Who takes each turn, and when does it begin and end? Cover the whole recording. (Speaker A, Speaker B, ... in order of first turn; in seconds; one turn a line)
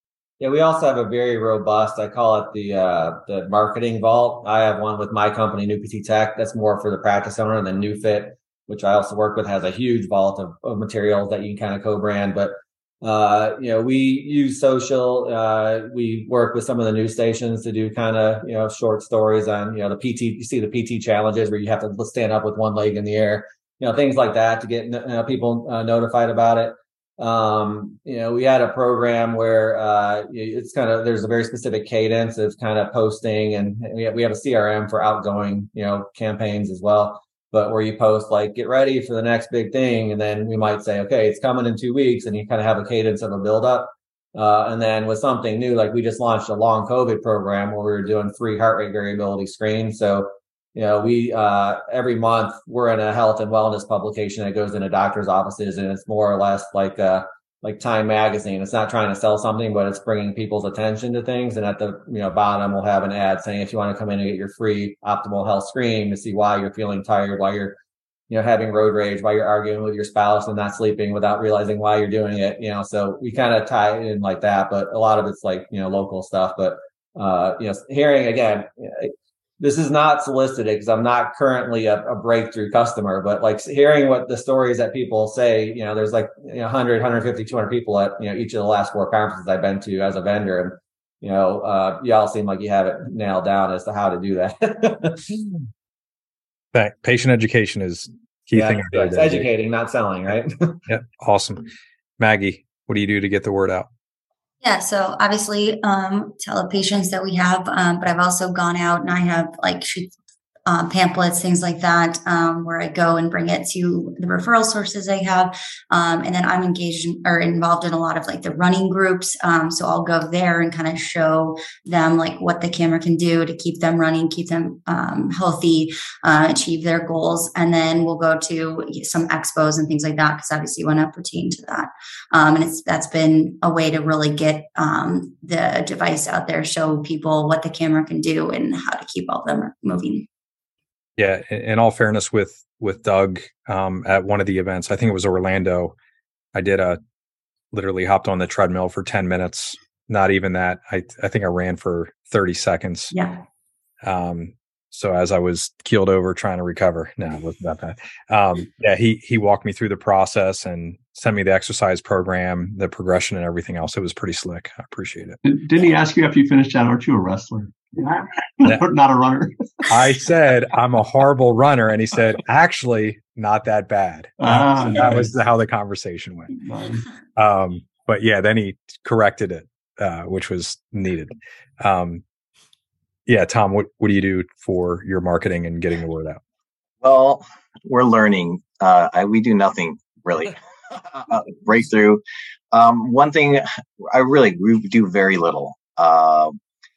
Speaker A: 0.4-67.8
Speaker A: 68.3-95.4
Speaker B: 96.7-99.5
Speaker A: 98.5-100.8
Speaker B: 100.9-103.9
Speaker C: 104.6-110.1
Speaker C: 110.7-140.3
Speaker B: 141.2-145.9
Speaker B: 146.5-147.0
Speaker B: 147.7-153.1
Speaker C: 153.1-153.4
Speaker B: 154.0-165.4
Speaker D: 165.4-169.5
Speaker B: 169.9-176.5
Speaker D: 174.4-175.3
Speaker D: 176.6-177.0
Speaker B: 177.3-182.2
Speaker B: 183.3-186.4
Speaker E: 187.0-192.2
Speaker E: 192.7-196.6